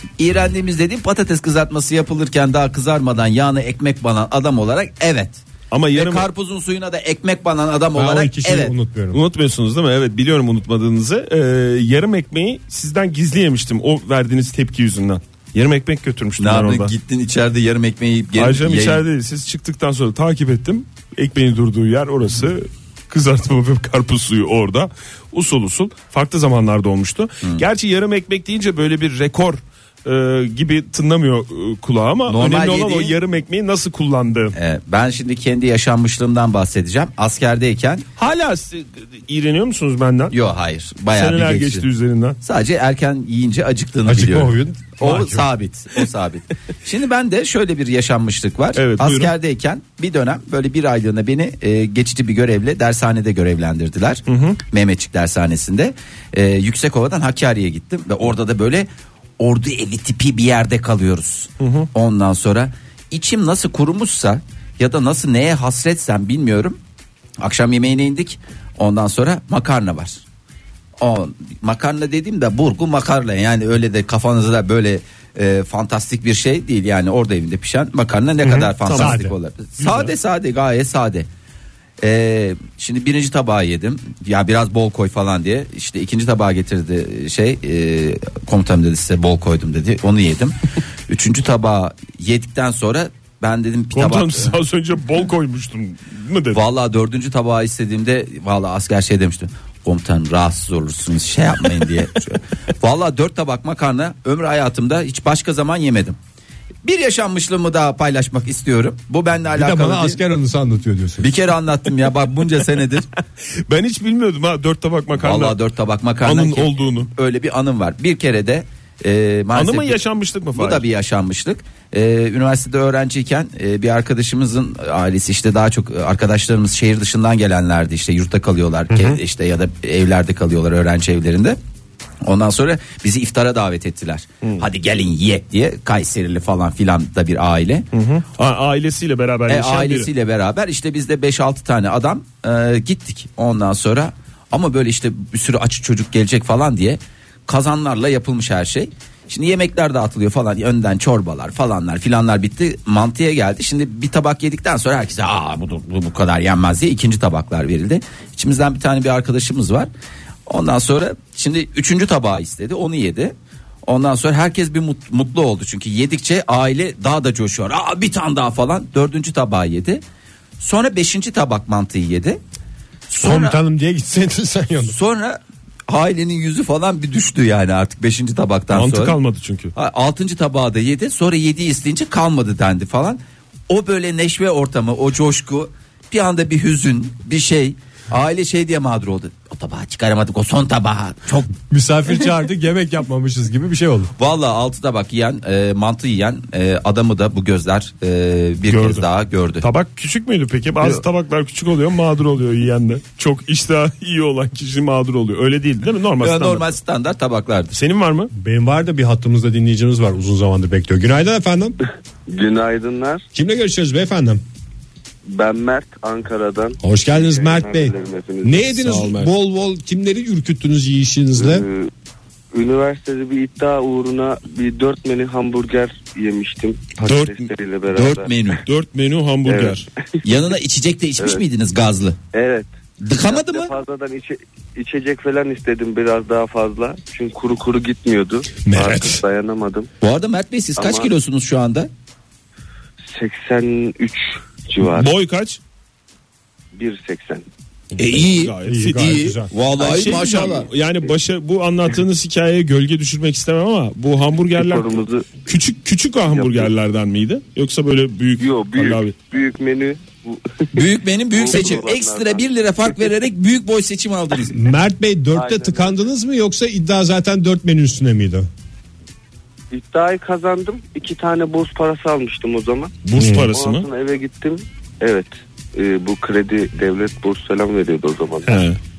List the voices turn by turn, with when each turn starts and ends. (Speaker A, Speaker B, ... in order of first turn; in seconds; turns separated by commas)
Speaker A: 0.2-8.7, Speaker B: 5.7-6.3, Speaker C: 7.9-9.2, Speaker B: 9.1-16.9, Speaker A: 16.4-19.0, Speaker B: 18.3-34.5, Speaker A: 32.2-33.2, Speaker A: 34.5-38.1, Speaker B: 38.2-40.3, Speaker A: 40.3-41.9, Speaker B: 41.1-42.4, Speaker A: 42.4-66.8, Speaker C: 44.0-45.5, Speaker B: 48.7-49.3, Speaker B: 54.3-54.6, Speaker B: 61.6-61.9, Speaker A: 67.4-70.2, Speaker A: 71.0-81.3, Speaker C: 78.4-79.3, Speaker B: 78.8-79.2, Speaker B: 79.8-80.1, Speaker A: 82.0-90.6, Speaker A: 91.1-94.5, Speaker B: 93.9-96.6, Speaker A: 96.5-106.2, Speaker A: 106.8-110.2, Speaker C: 109.5-111.3, Speaker A: 111.2-113.1, Speaker B: 113.7-115.6, Speaker A: 115.1-120.0, Speaker B: 116.2-117.1, Speaker B: 119.5-120.8, Speaker A: 120.5-131.6, Speaker A: 132.2-137.9, Speaker B: 137.9-140.1, Speaker A: 139.5-159.9, Speaker A: 160.5-163.3, Speaker A: 163.8-170.0, Speaker A: 170.6-172.4, Speaker A: 173.1-173.6, Speaker C: 173.2-174.9, Speaker A: 174.8-179.2, Speaker B: 178.7-179.7, Speaker A: 179.7-191.5, Speaker C: 191.7-194.1, Speaker A: 194.2-199.7, Speaker B: 198.7-199.1, Speaker B: 199.6-206.7, Speaker A: 206.2-207.7, Speaker B: 207.7-208.3, Speaker C: 208.3-211.8, Speaker D: 212.3-213.2, Speaker C: 213.3-214.4, Speaker D: 215.3-218.9, Speaker C: 216.8-221.7, Speaker B: 218.7-219.3, Speaker D: 221.3-221.9, Speaker D: 222.5-228.3, Speaker B: 227.0-227.5, Speaker A: 227.9-228.6, Speaker B: 228.6-229.9, Speaker D: 229.4-230.2, Speaker A: 230.2-232.2, Speaker D: 231.2-231.4, Speaker D: 232.3-239.9, Speaker A: 233.0-233.7, Speaker C: 238.7-239.2, Speaker A: 240.0-241.9, Speaker D: 240.8-241.1, Speaker D: 243.1-245.1, Speaker B: 244.8-245.6, Speaker D: 246.7-247.4, Speaker A: 248.0-250.7, Speaker B: 248.2-259.2, Speaker C: 248.6-249.5, Speaker D: 254.5-255.4, Speaker D: 256.3-256.7, Speaker D: 258.4-263.0, Speaker A: 260.7-264.6, Speaker C: 264.5-268.5, Speaker D: 265.3-266.0, Speaker D: 269.7-278.7, Speaker B: 273.0-273.9, Speaker C: 273.2-273.5, Speaker B: 278.4-278.8